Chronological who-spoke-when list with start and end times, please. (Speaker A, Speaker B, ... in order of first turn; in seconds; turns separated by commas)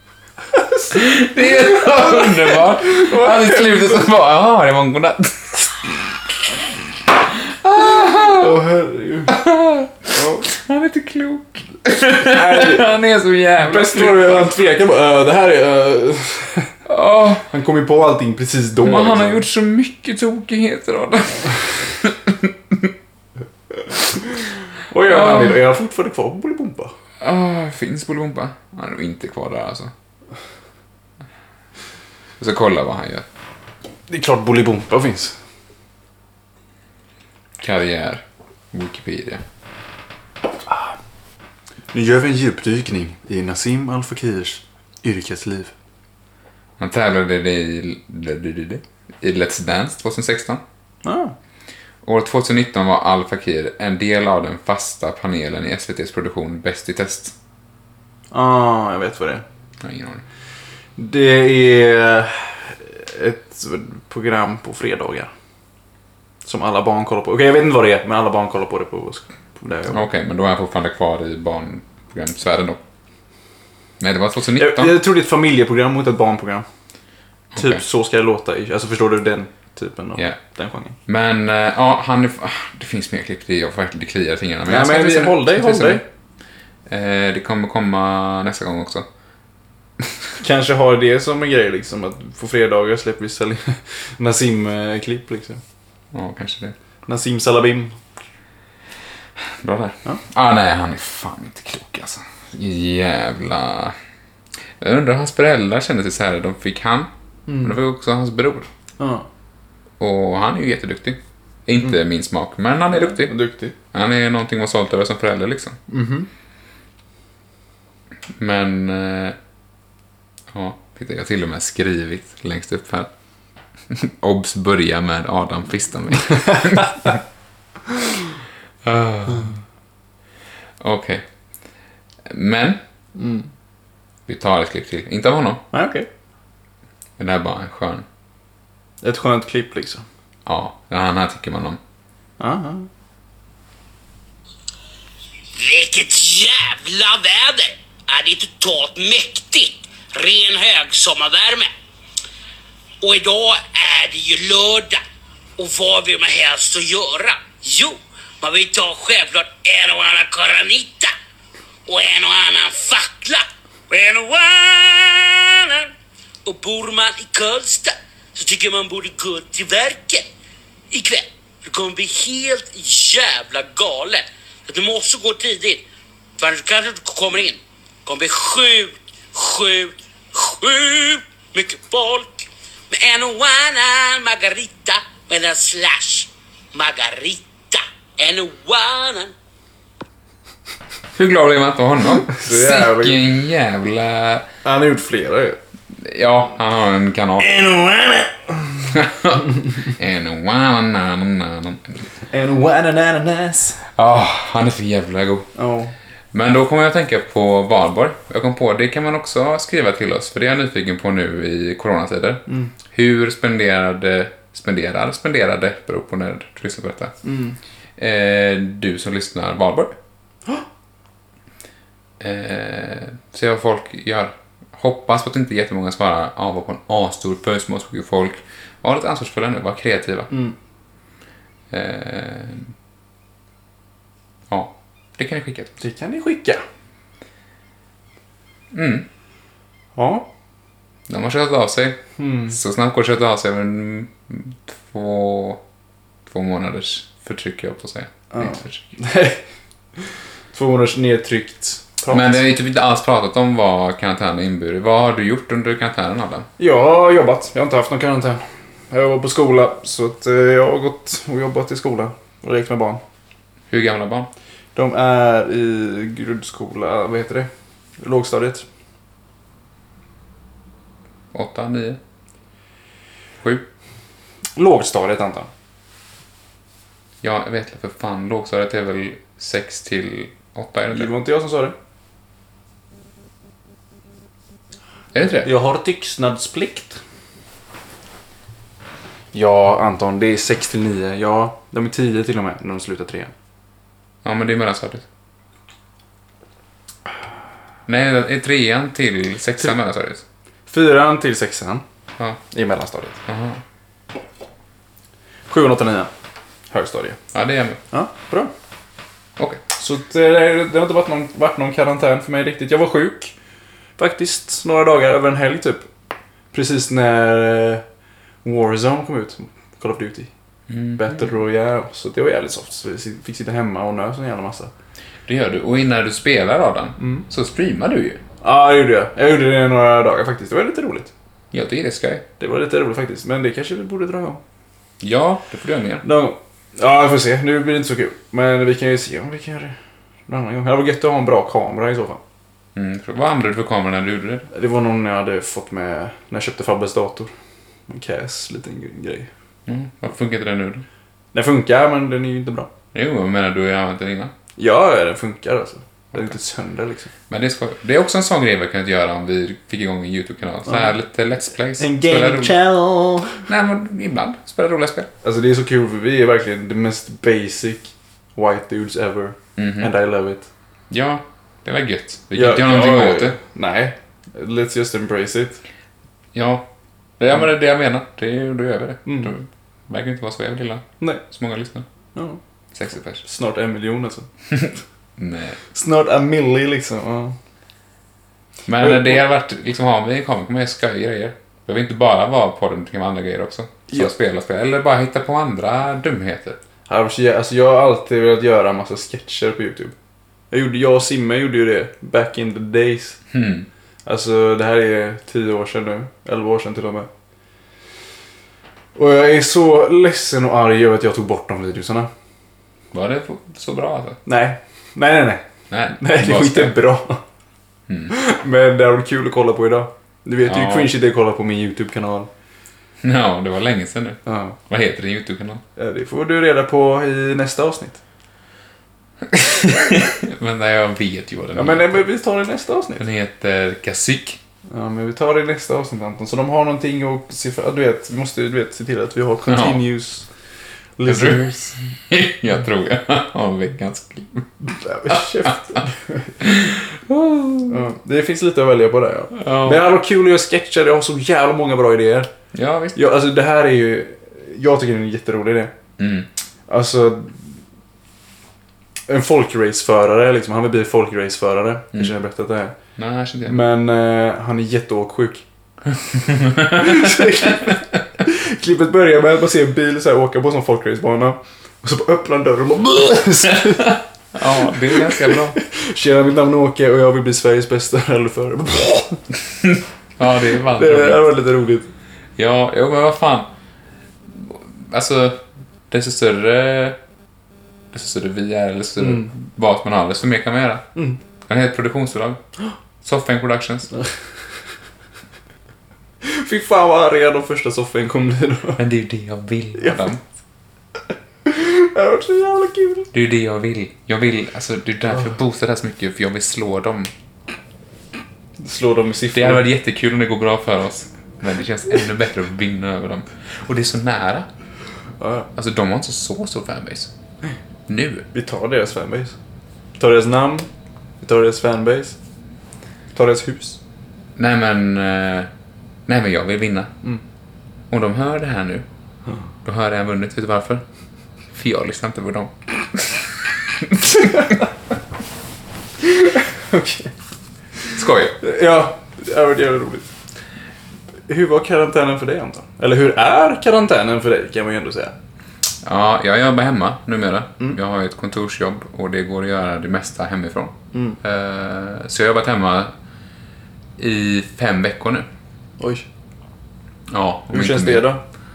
Speaker A: 0.6-0.8, Speaker B: 0.9-5.6, Speaker A: 1.7-4.0, Speaker B: 7.3-8.6, Speaker A: 8.3-9.4, Speaker B: 9.3-14.5, Speaker A: 10.1-10.4, Speaker A: 12.2-12.9, Speaker A: 13.6-16.7, Speaker B: 16.9-17.5, Speaker A: 17.4-19.4, Speaker B: 18.8-22.9, Speaker A: 24.9-26.9, Speaker B: 25.0-25.6, Speaker B: 27.2-29.9, Speaker B: 32.4-33.2, Speaker A: 34.1-35.4, Speaker B: 37.6-39.4, Speaker A: 40.7-40.9, Speaker A: 41.9-45.7, Speaker B: 46.8-50.6, Speaker A: 51.0-51.3, Speaker B: 52.0-57.3, Speaker A: 58.3-59.4, Speaker B: 59.8-60.2, Speaker A: 61.0-65.3, Speaker A: 66.4-70.0, Speaker B: 69.9-72.8, Speaker B: 74.0-75.0, Speaker A: 74.5-76.7, Speaker B: 77.5-77.8, Speaker A: 77.5-81.0, Speaker B: 81.1-86.0, Speaker A: 84.7-86.0, Speaker B: 86.9-89.1, Speaker A: 90.4-95.6, Speaker B: 96.1-96.8, Speaker A: 97.1-98.0, Speaker B: 99.5-104.0, Speaker B: 104.8-107.1, Speaker A: 107.5-107.8, Speaker B: 107.6-108.7, Speaker A: 109.0-109.3, Speaker B: 110.0-113.3, Speaker A: 112.9-113.7, Speaker B: 113.9-115.8, Speaker A: 115.9-116.3, Speaker B: 118.3-119.4, Speaker B: 120.5-123.1, Speaker B: 123.9-127.2, Speaker B: 128.8-129.6, Speaker B: 130.8-131.2, Speaker B: 132.2-132.8, Speaker A: 133.2-133.5, Speaker B: 134.3-135.6, Speaker A: 135.7-136.1, Speaker B: 137.2-138.1, Speaker A: 139.0-140.1, Speaker B: 140.4-141.8, Speaker A: 142.4-142.9, Speaker C: 145.5-151.7, Speaker C: 153.0-155.0, Speaker C: 155.6-161.1, Speaker C: 161.8-165.9, Speaker C: 166.4-170.3, Speaker C: 170.9-175.8, Speaker C: 176.4-189.3, Speaker B: 191.1-194.5, Speaker A: 192.3-193.2, Speaker A: 194.6-195.6, Speaker B: 195.9-197.5, Speaker A: 197.4-198.5, Speaker B: 198.9-202.1, Speaker A: 202.3-203.8, Speaker B: 203.9-205.5, Speaker A: 205.5-205.9, Speaker B: 206.3-217.2, Speaker A: 212.5-212.7, Speaker A: 217.2-217.6, Speaker B: 218.0-220.0, Speaker B: 222.2-230.3, Speaker B: 231.7-232.7, Speaker B: 234.5-235.7, Speaker A: 235.8-236.6, Speaker B: 238.7-239.1, Speaker A: 239.9-240.3, Speaker B: 241.1-245.6, Speaker A: 242.2-242.6, Speaker B: 246.3-248.8, Speaker A: 248.3-249.4, Speaker A: 250.5-252.4, Speaker B: 252.1-256.5, Speaker A: 256.6-263.0, Speaker B: 263.7-264.3, Speaker A: 264.7-268.6, Speaker B: 271.3-272.0, Speaker B: 273.4-273.7, Speaker A: 274.6-275.5, Speaker B: 277.2-281.1, Speaker A: 280.9-281.7, Speaker B: 285.1-285.5, Speaker A: 285.4-287.0, Speaker A: 289.3-293.3, Speaker B: 294.2-295.1, Speaker B: 297.9-300.2, Speaker A: 300.7-301.8, Speaker A: 302.5-303.2, Speaker B: 303.2-303.6, Speaker A: 305.5-306.1, Speaker A: 306.7-307.2, Speaker B: 307.3-307.8, Speaker A: 307.9-308.5, Speaker A: 309.8-313.3, Speaker A: 314.0-315.9, Speaker A: 316.5-317.8, Speaker A: 318.4-320.3, Speaker B: 320.7-321.3, Speaker A: 321.0-324.7, Speaker B: 325.3-328.2, Speaker A: 327.0-327.2, Speaker A: 328.4-331.1, Speaker B: 331.5-332.2, Speaker A: 332.4-334.4, Speaker B: 335.0-336.0, Speaker A: 336.0-339.8, Speaker A: 340.3-342.2, Speaker B: 342.7-344.5, Speaker A: 344.5-347.3, Speaker A: 347.9-349.3, Speaker B: 349.6-350.8, Speaker A: 351.3-352.7, Speaker B: 352.9-354.3, Speaker A: 354.6-357.1, Speaker B: 357.3-362.6, Speaker A: 360.7-360.9, Speaker A: 361.8-363.5, Speaker B: 363.5-365.1, Speaker A: 365.2-370.5, Speaker B: 369.6-369.9, Speaker B: 370.9-373.4, Speaker A: 372.3-375.6, Speaker B: 376.3-376.7, Speaker B: 377.2-381.9, Speaker A: 379.1-379.3, Speaker A: 382.1-382.4, Speaker B: 382.7-383.2, Speaker A: 383.2-384.3, Speaker B: 384.6-385.6, Speaker A: 385.7-387.4, Speaker B: 388.7-396.6, Speaker A: 388.8-389.2, Speaker A: 396.9-399.9, Speaker A: 400.5-403.2, Speaker B: 403.3-403.7, Speaker A: 404.0-407.1, Speaker A: 408.9-412.1, Speaker B: 412.9-414.2, Speaker A: 414.2-417.2, Speaker B: 415.7-416.8, Speaker B: 417.9-418.1, Speaker A: 418.1-422.3, Speaker B: 420.4-420.9, Speaker B: 423.0-425.6, Speaker A: 424.2-424.6, Speaker A: 425.8-428.0, Speaker B: 429.3-432.0, Speaker A: 431.5-433.0, Speaker B: 433.0-434.4, Speaker A: 434.7-440.3, Speaker B: 439.5-439.8, Speaker A: 441.0-441.8, Speaker B: 441.1-444.5, Speaker A: 444.7-446.4, Speaker B: 445.1-445.8, Speaker B: 446.4-447.8, Speaker A: 447.7-452.3, Speaker B: 449.3-449.9, Speaker B: 452.5-453.0, Speaker A: 452.9-455.7, Speaker B: 456.0-456.3, Speaker A: 456.7-457.6, Speaker A: 459.1-462.7, Speaker B: 462.9-463.6, Speaker A: 463.4-465.4, Speaker B: 466.1-467.7, Speaker A: 466.7-474.0, Speaker B: 474.3-475.6, Speaker A: 474.6-479.2, Speaker B: 480.2-481.3, Speaker A: 480.7-481.9, Speaker B: 482.4-483.5, Speaker B: 484.3-487.0, Speaker B: 487.9-490.9, Speaker A: 489.0-489.3, Speaker B: 491.5-492.4, Speaker B: 493.0-493.9, Speaker A: 496.2-498.8, Speaker B: 498.8-500.2, Speaker A: 501.4-503.1, Speaker B: 503.1-507.1, Speaker A: 508.6-509.6, Speaker B: 509.3-514.5, Speaker A: 515.2-515.5, Speaker B: 515.5-517.1, Speaker B: 517.9-518.3, Speaker A: 518.3-519.4, Speaker A: 520.0-520.7, Speaker A: 521.2-522.2, Speaker A: 523.1-523.8, Speaker B: 524.4-525.5, Speaker B: 526.1-526.9, Speaker B: 527.9-528.9, Speaker B: 529.6-530.8, Speaker B: 531.5-534.6, Speaker A: 536.0-537.1, Speaker B: 538.0-538.4, Speaker A: 538.4-540.1, Speaker A: 541.3-545.1, Speaker B: 545.8-552.9, Speaker A: 550.9-551.2, Speaker B: 554.0-555.3, Speaker A: 555.8-556.0, Speaker B: 557.1-558.1, Speaker A: 557.5-558.2